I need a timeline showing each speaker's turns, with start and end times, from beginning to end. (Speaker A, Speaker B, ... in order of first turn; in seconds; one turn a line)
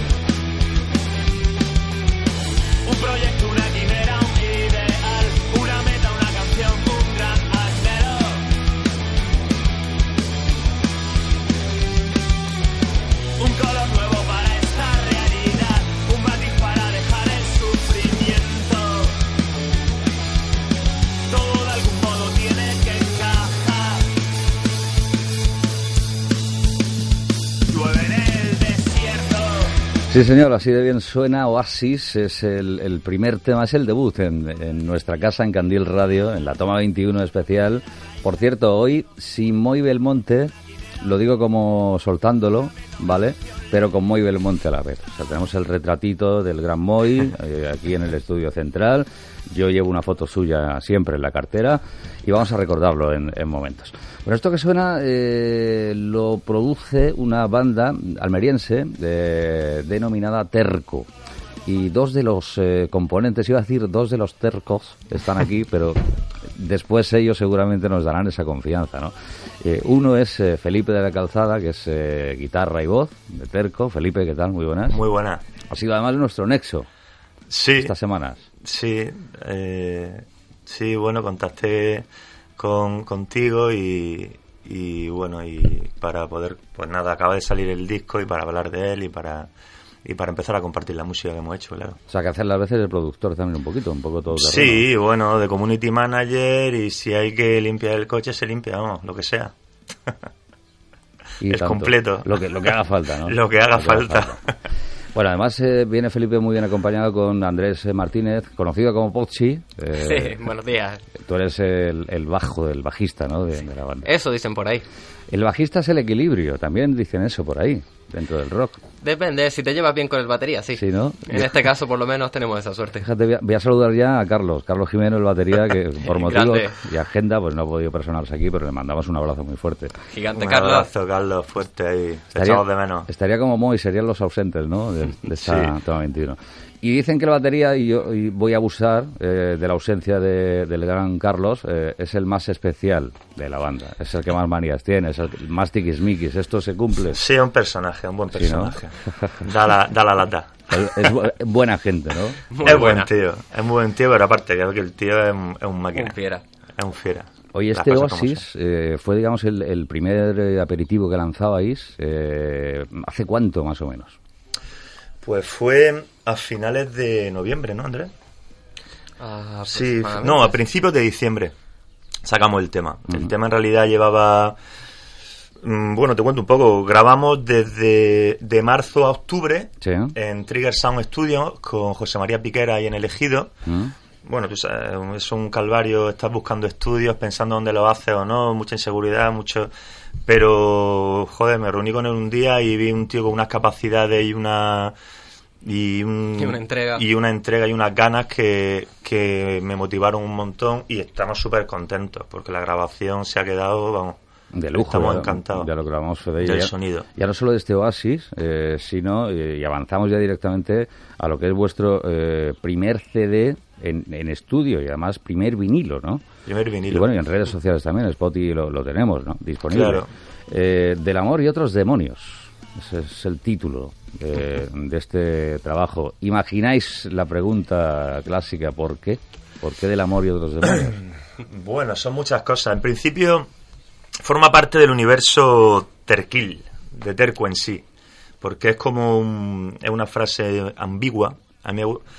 Speaker A: 2.8-8.5
Speaker A: 13.4-19.2
Speaker A: 21.3-24.1
Speaker A: 27.7-29.7
Speaker B: 30.1-61.1
Speaker B: 61.6-75.0
Speaker A: 74.9-75.4
Speaker B: 75.7-76.9
Speaker A: 77.5-77.9
Speaker B: 77.8-78.4
Speaker A: 78.6-89.5
Speaker A: 90.0-92.0
Speaker B: 92.1-94.8
Speaker A: 94.3-99.5
Speaker B: 101.4-104.4
Speaker A: 101.5-104.5
Speaker B: 105.1-110.4
Speaker C: 110.0-111.0
Speaker B: 111.2-114.1
Speaker C: 114.0-114.8
Speaker B: 115.3-118.8
Speaker C: 119.0-123.0
Speaker B: 120.8-121.5
Speaker B: 123.0-130.0
Speaker C: 126.1-126.8
Speaker C: 130.1-130.9
Speaker A: 130.3-133.1
Speaker B: 132.4-147.2
Speaker A: 135.4-135.7
Speaker A: 147.1-151.1
Speaker B: 148.3-149.4
Speaker B: 150.7-152.8
Speaker C: 152.5-153.1
Speaker A: 152.6-156.2
Speaker C: 155.9-156.4
Speaker A: 156.8-158.4
Speaker B: 157.5-164.2
Speaker A: 165.2-168.1
Speaker C: 169.2-170.6
Speaker A: 169.7-171.5
Speaker A: 172.2-174.6
Speaker A: 175.6-183.5
Speaker B: 179.8-180.1
Speaker B: 183.7-183.9
Speaker A: 184.2-189.7
Speaker A: 190.2-194.9
Speaker A: 195.6-204.2
Speaker C: 196.4-197.0
Speaker B: 204.5-216.2
Speaker A: 204.7-205.7
Speaker A: 206.4-207.1
Speaker A: 216.4-217.1
Speaker B: 216.9-231.0
Speaker A: 219.7-220.1
Speaker A: 230.7-233.5
Speaker A: 234.2-237.8
Speaker A: 238.4-242.0